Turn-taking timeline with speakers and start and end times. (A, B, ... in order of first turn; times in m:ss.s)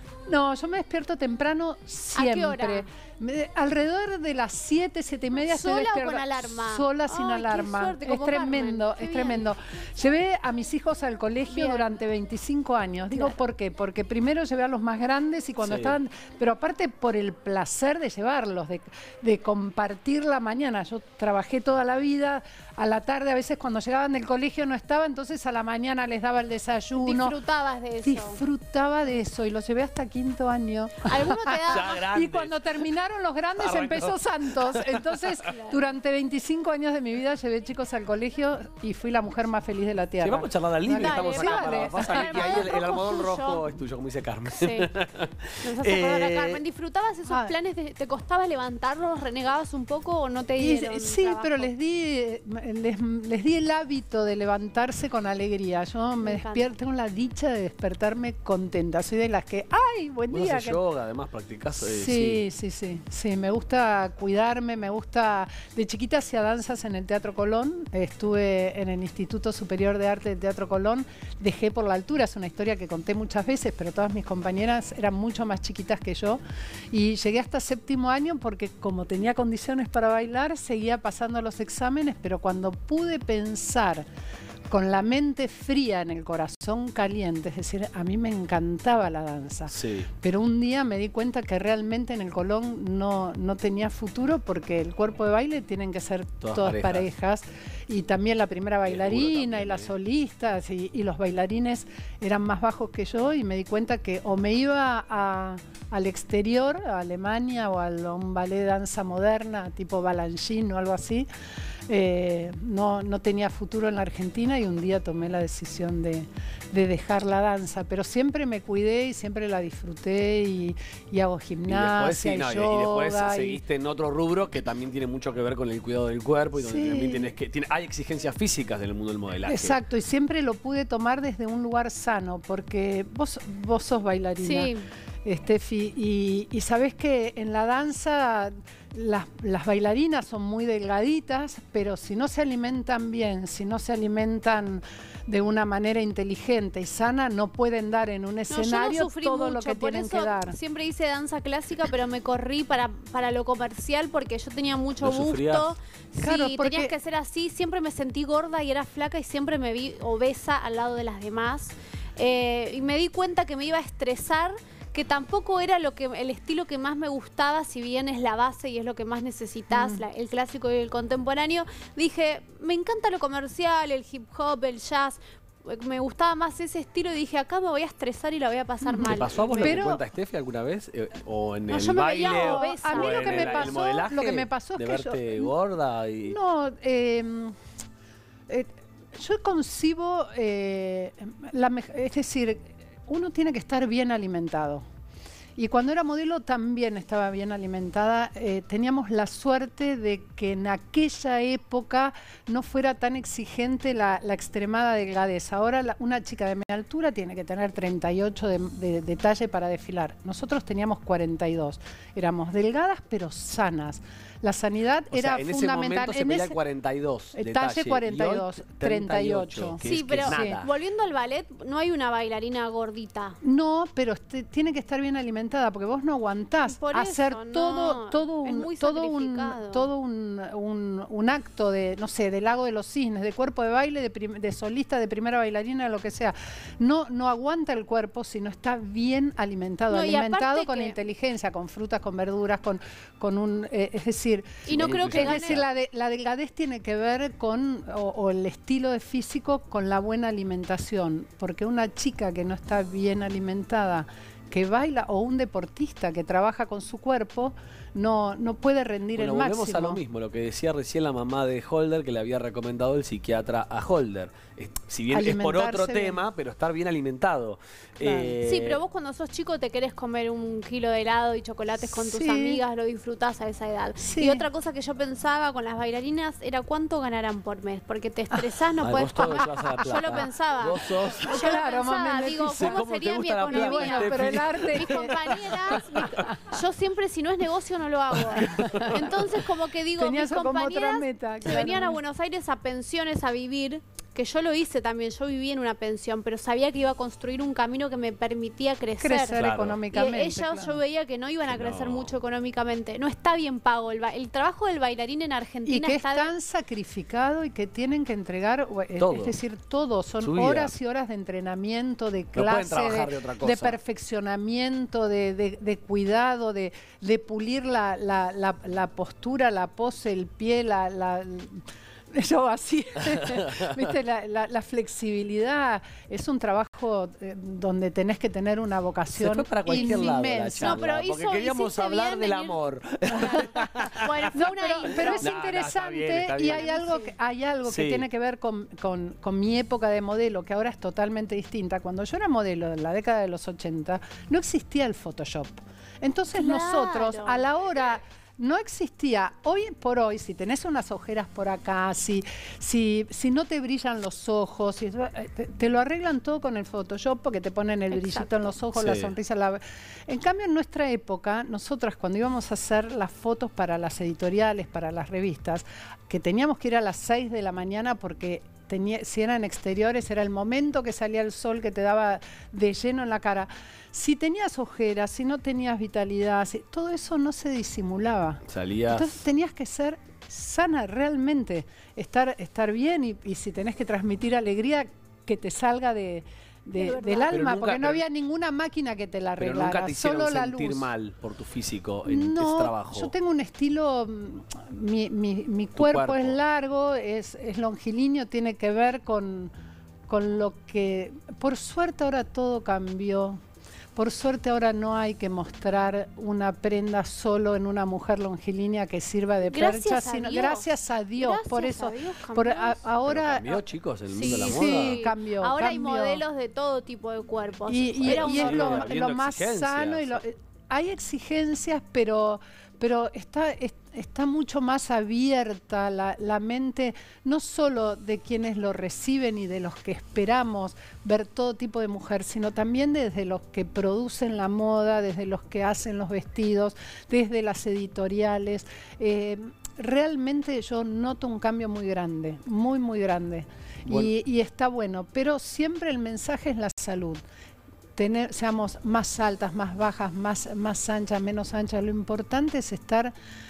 0:00.3-0:27.4 A
0:02.1-0:02.9 B
0:05.4-0:09.5 B
0:11.5-0:11.9 B
0:13.1-0:13.4 B
0:15.6-0:16.0 C
0:27.0-0:28.4 B
0:28.0-0:42.8 A
0:31.0-0:32.0 B
0:31.7-0:32.6 C
0:33.6-0:35.4 C
0:35.5-0:35.8 B
0:40.2-0:46.6 C
0:41.0-0:43.6 B
0:44.6-0:44.9 B
0:45.6-0:51.7 B
0:47.3-0:47.6 A
0:50.6-1:00.8 A
0:56.2-0:56.7 B
1:00.3-1:02.4 C
1:01.8-1:24.1 A
1:24.7-1:51.3 A
1:29.7-1:30.1 C
1:36.4-1:37.1 C
1:38.8-1:39.9 C
1:51.9-2:03.6 A
2:01.7-2:09.8 C
2:06.6-2:07.4 A
2:09.5-2:14.7 A
2:14.4-2:14.9 B
2:15.2-2:30.6 A
2:28.5-2:59.8 B
2:35.0-2:35.8 C
2:36.2-2:36.9 A
2:49.7-2:50.1 A
2:58.8-3:00.0 A
2:59.0-3:06.4 C
3:01.7-3:03.8 B
3:01.7-3:05.5 A
3:06.2-3:07.6 A
3:08.5-3:14.8 A
3:15.6-3:36.6 A
3:35.1-3:40.7 C
3:37.3-3:40.6 A
3:39.8-3:43.4 B
3:43.4-4:20.0 A
3:46.6-3:49.9 B
3:59.9-4:01.0 B
4:04.7-4:05.6 B
4:04.7-4:05.6 C
4:19.2-4:28.8 C
4:25.1-4:26.2 A
4:28.0-4:28.4 A
4:28.4-4:59.4 B
4:31.8-4:32.6 A
4:34.0-4:34.5 A
4:38.8-4:41.6 C
4:39.4-4:40.0 A
4:41.2-4:42.8 A
4:42.4-4:45.8 C
4:43.5-4:46.6 A
4:48.2-4:49.0 C
4:48.4-4:49.2 A
4:50.0-4:52.0 A
4:59.0-5:00.8 A
4:59.4-4:59.8 C
4:59.9-5:06.3 B
5:01.5-5:02.2 C
5:05.7-5:30.8 A
5:09.0-5:09.4 C
5:10.2-5:10.8 C
5:12.4-5:13.8 C
5:29.1-5:34.4 C
5:29.7-5:32.6 B
5:33.2-5:35.3 B
5:34.3-6:30.9 A
5:35.2-5:36.7 C
5:36.5-5:37.1 B
5:37.7-5:38.0 C
5:46.3-5:47.4 B
5:57.9-5:58.6 B
5:58.7-5:59.2 C
6:18.5-6:19.2 C
6:26.8-6:27.5 B
6:27.3-6:28.0 C
6:29.4-6:33.1 C
6:32.1-6:39.5 A
6:35.8-6:36.4 C
6:40.1-6:43.4 A
6:44.0-6:53.5 A
6:49.5-6:52.8 B
6:53.0-6:55.0 C
6:54.1-6:58.9 B
6:54.2-6:56.2 A
6:57.7-7:27.2 A
6:58.0-7:00.2 C
7:23.9-7:24.1 C
7:28.0-7:33.1 A